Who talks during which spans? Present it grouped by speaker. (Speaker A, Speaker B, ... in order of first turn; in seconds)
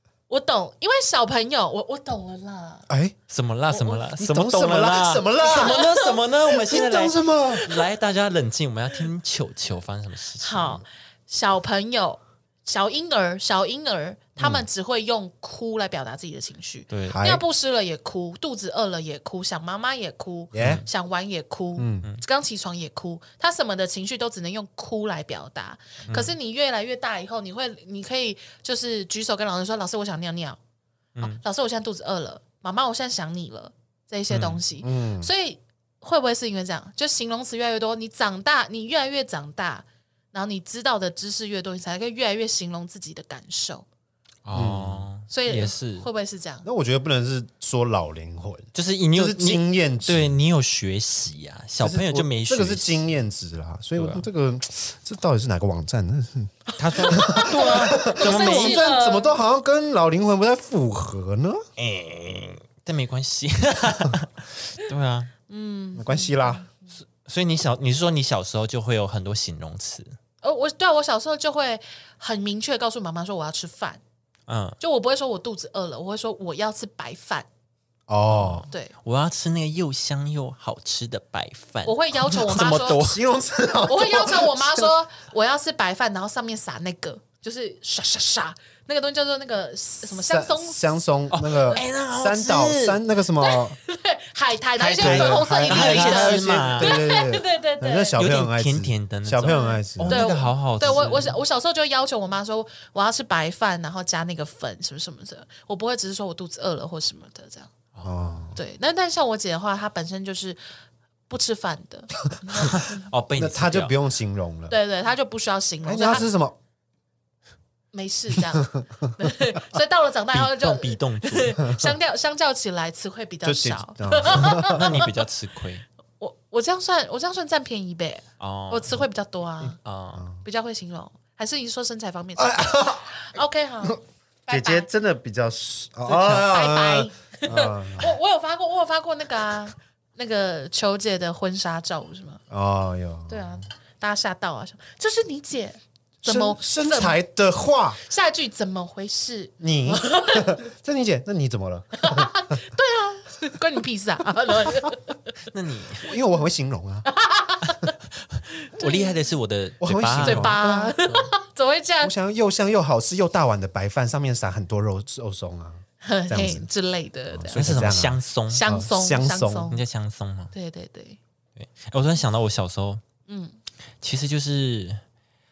Speaker A: 0.3-2.9, 3.7-4.0, 5.4-6.2, 10.4-30.6, 31.2-43.9, 45.3-46.7, 56.9-59.4, 65.5-66.7, 70.4-74.0, 74.8-77.5, 78.7-78.9, 81.8-83.0, 83.9-90.8, 93.4-98.2, 99.4-107.7, 108.5-110.6, 111.3-113.0, 114.7-116.3, 117.9-125.1, 126.2-129.8, 130.4-134.9, 136.1-142.4, 143.3-147.2, 148.0-150.6, 152.0-155.2, 157.1-157.9, 158.6-159.2, 160.2-162.1, 166.0-167.7, 168.5-169.8, 170.5-171.2, 173.3-173.6
Speaker B: 2.9-3.1, 4.1-5.9, 6.5-7.7, 14.4-14.7, 17.1-17.4, 20.5-20.8, 21.8-22.0, 34.8-35.3, 44.5-45.1, 46.6-50.3, 51.8-61.6, 65.9-66.6, 78.1-78.7, 82.9-84.9, 90.1-93.8, 95.0-100.3, 108.0-108.6, 113.3-114.8, 115.8-116.5, 118.5-118.8, 123.4-125.0, 132.4-133.2, 134.5-138.2, 142.5-143.6, 146.2-148.0, 149.6-152.6, 156.0-157.1, 159.8-161.0, 162.0-166.7, 167.3-169.7
Speaker C: 3.3-10.8, 16.9-17.2, 20.6-20.9, 26.0-26.3, 31.1-31.4, 34.3-34.6, 44.4-46.1, 48.7-53.0, 54.0-54.3, 56.8-58.8, 61.8-65.3, 67.0-70.2, 74.5-74.8, 78.3-83.2, 91.3-93.0, 94.8-97.0, 98.2-101.4, 112.6-113.9, 120.3-121.6, 124.4-125.8, 128.4-129.0, 129.8-130.2, 155.5-156.1, 158.3-161.3, 167.5-168.7, 169.7-170.5, 171.6-173.0, 174.0-175.0